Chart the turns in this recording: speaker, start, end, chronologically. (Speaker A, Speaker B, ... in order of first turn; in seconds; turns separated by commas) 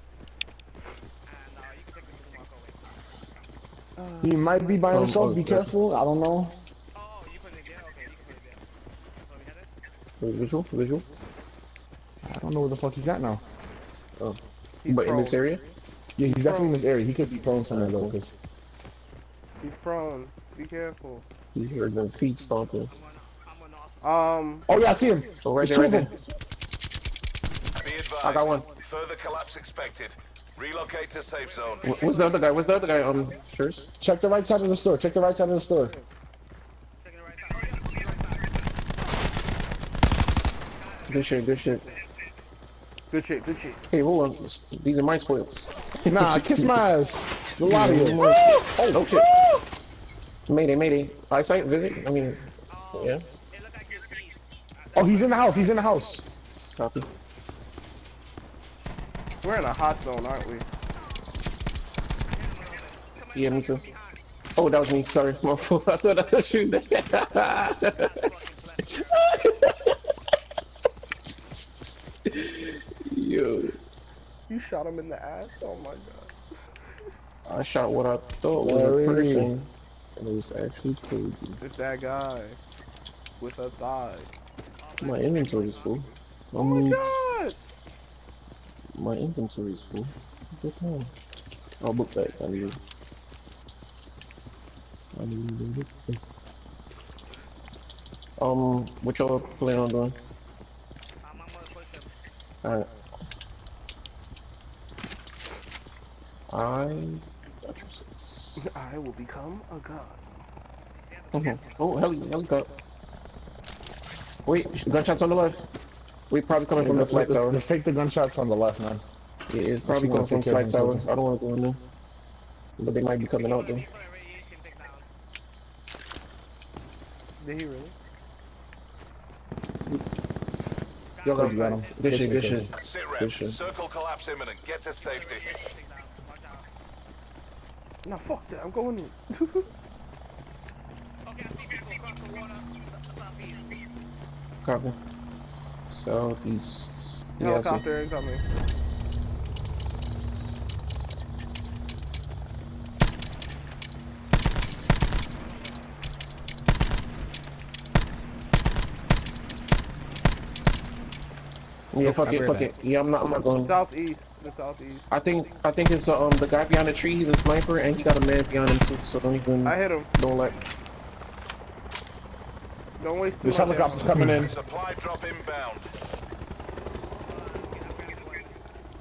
Speaker A: 1.2-3.5, Speaker B: 4.0-5.1, Speaker C: 4.2-6.6, Speaker D: 4.9-5.7, Speaker A: 6.9-8.6, Speaker A: 9.1-9.7, Speaker D: 10.2-11.0, Speaker C: 12.2-13.4, Speaker D: 14.2-15.6, Speaker B: 14.8-16.8, Speaker C: 16.2-18.3, Speaker D: 17.7-18.2, Speaker B: 19.6-21.2, Speaker D: 21.5-22.9, Speaker A: 22.9-24.6, Speaker B: 24.0-24.6, Speaker C: 24.7-26.1, Speaker D: 25.4-26.1, Speaker E: 27.8-31.9, Speaker D: 28.2-28.6, Speaker A: 31.4-33.3, Speaker D: 31.8-33.9, Speaker C: 34.0-35.9, Speaker A: 37.0-39.1, Speaker A: 40.8-42.1, Speaker D: 41.1-41.8, Speaker B: 43.1-43.8, Speaker D: 43.9-46.8, Speaker C: 46.1-49.1, Speaker D: 47.6-49.3, Speaker B: 48.2-49.6, Speaker D: 50.5-53.2, Speaker A: 52.7-56.0, Speaker C: 54.9-56.2, Speaker D: 56.8-57.1, Speaker B: 59.4-60.6, Speaker A: 62.3-64.2, Speaker D: 63.3-63.8, Speaker D: 64.5-68.3, Speaker A: 67.9-69.7, Speaker D: 68.9-70.0, Speaker D: 72.2-73.8, Speaker B: 74.5-76.3, Speaker D: 77.4-81.6, Speaker C: 78.5-79.5, Speaker B: 81.6-82.6, Speaker B: 83.4-84.3, Speaker A: 84.8-86.2, Speaker D: 85.0-87.1, Speaker B: 86.6-87.6, Speaker D: 88.9-91.1, Speaker D: 91.8-92.8, Speaker A: 92.2-92.8, Speaker D: 95.1-96.2, Speaker D: 98.4-100.2, Speaker A: 101.2-102.1, Speaker D: 102.6-102.9, Speaker D: 106.5-108.6, Speaker B: 108.6-110.2, Speaker A: 110.9-112.1, Speaker D: 111.3-112.7, Speaker D: 114.5-115.7, Speaker D: 116.3-117.6, Speaker C: 116.8-119.0, Speaker D: 119.5-121.8, Speaker C: 119.8-121.0, Speaker D: 122.8-123.9, Speaker A: 123.3-125.1, Speaker B: 127.4-127.9, Speaker A: 131.1-132.6, Speaker C: 131.2-132.7, Speaker D: 131.3-133.6, Speaker E: 132.8-135.5, Speaker A: 135.0-136.7, Speaker B: 138.0-139.7, Speaker A: 141.2-143.8, Speaker D: 144.6-144.9, Speaker D: 145.9-147.8, Speaker B: 147.4-148.4, Speaker D: 161.9-163.8, Speaker C: 162.0-162.7, Speaker B: 163.6-165.1, Speaker D: 165.1-170.6, Speaker B: 169.6-170.1, Speaker B: 173.0-174.2, Speaker C: 173.4-174.5, Speaker E: 174.4-175.9, Speaker A: 177.2-178.5